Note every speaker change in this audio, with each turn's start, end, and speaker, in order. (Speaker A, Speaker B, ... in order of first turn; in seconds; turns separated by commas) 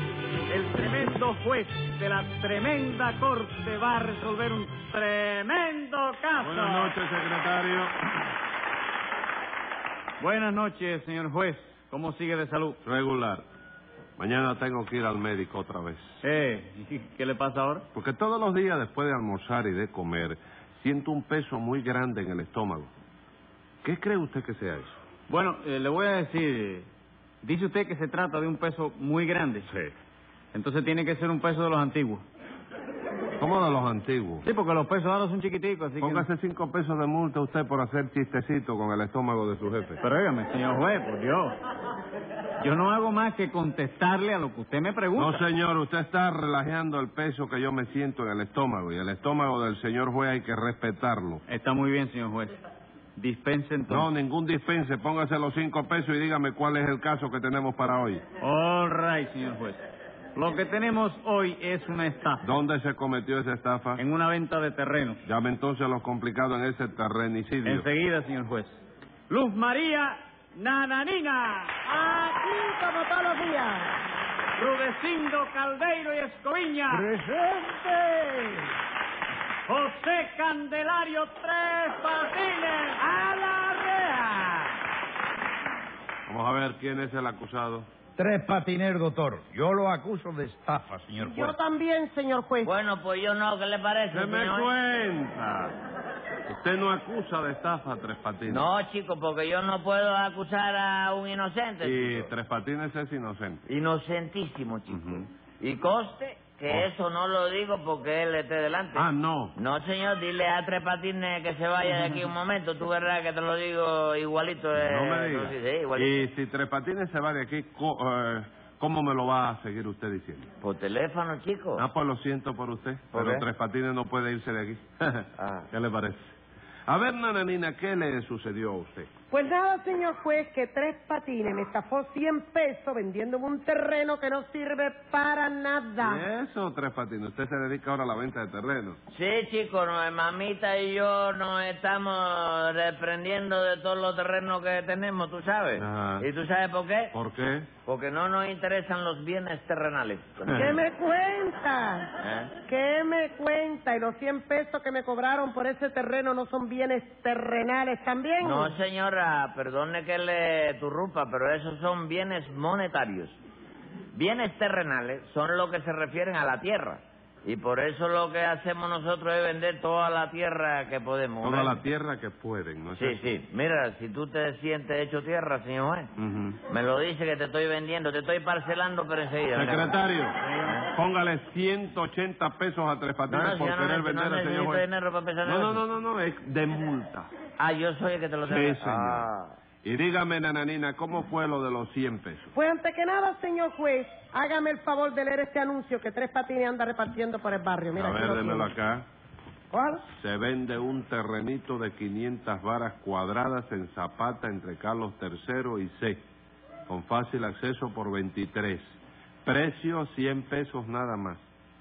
Speaker A: 0.5-6.9, Speaker B: 6.4-7.9, Speaker A: 10.2-12.8, Speaker B: 12.8-13.4, Speaker B: 14.2-16.1, Speaker A: 16.2-17.8, Speaker B: 17.9-22.9, Speaker B: 23.8-25.0, Speaker A: 25.3-26.9, Speaker A: 27.4-29.7, Speaker B: 29.7-29.9, Speaker A: 30.5-32.2, Speaker B: 33.4-34.4, Speaker A: 34.4-36.3, Speaker B: 36.0-40.0, Speaker A: 40.0-41.5, Speaker A: 42.6-45.4, Speaker B: 45.2-51.4, Speaker A: 51.5-52.6, Speaker A: 53.1-54.1, Speaker B: 53.9-58.2, Speaker A: 58.4-59.8, Speaker A: 60.3-62.5, Speaker B: 62.4-63.9, Speaker A: 64.0-65.2, Speaker B: 65.2-67.7, Speaker A: 67.6-68.8, Speaker A: 69.3-71.8, Speaker C: 71.9-73.9, Speaker A: 74.6-77.1, Speaker D: 76.9-78.5, Speaker A: 79.7-83.1, Speaker A: 83.8-84.5, Speaker B: 86.3-87.8, Speaker D: 88.2-91.5, Speaker C: 91.3-92.7, Speaker E: 92.6-94.7, Speaker B: 94.1-95.7, Speaker B: 96.5-98.7, Speaker E: 98.5-102.3, Speaker B: 101.8-103.6, Speaker E: 103.7-116.2, Speaker B: 104.9-105.2, Speaker B: 109.0-109.5, Speaker B: 114.8-120.5, Speaker E: 120.6-121.8, Speaker B: 121.8-126.3, Speaker E: 123.1-123.4, Speaker E: 125.4-125.7, Speaker B: 126.9-129.1, Speaker C: 129.3-136.2, Speaker B: 136.0-139.0, Speaker E: 139.1-147.1, Speaker B: 145.8-146.3, Speaker B: 147.1-147.7, Speaker E: 147.8-150.8, Speaker C: 150.6-152.1, Speaker E: 152.2-152.5, Speaker C: 152.7-158.7, Speaker E: 158.4-163.4, Speaker E: 164.1-171.8, Speaker B: 171.4-173.2, Speaker E: 172.9-176.1, Speaker B: 176.2-176.6, Speaker E: 176.7-180.9, Speaker B: 179.5-180.3, Speaker B: 181.1-184.8, Speaker E: 183.3-185.8, Speaker B: 185.4-187.3, Speaker E: 187.6-189.5, Speaker B: 188.5-189.3, Speaker B: 189.8-192.5, Speaker C: 192.6-198.7, Speaker B: 197.9-199.0, Speaker C: 199.7-200.0, Speaker B: 200.1-206.2, Speaker B: 206.9-211.4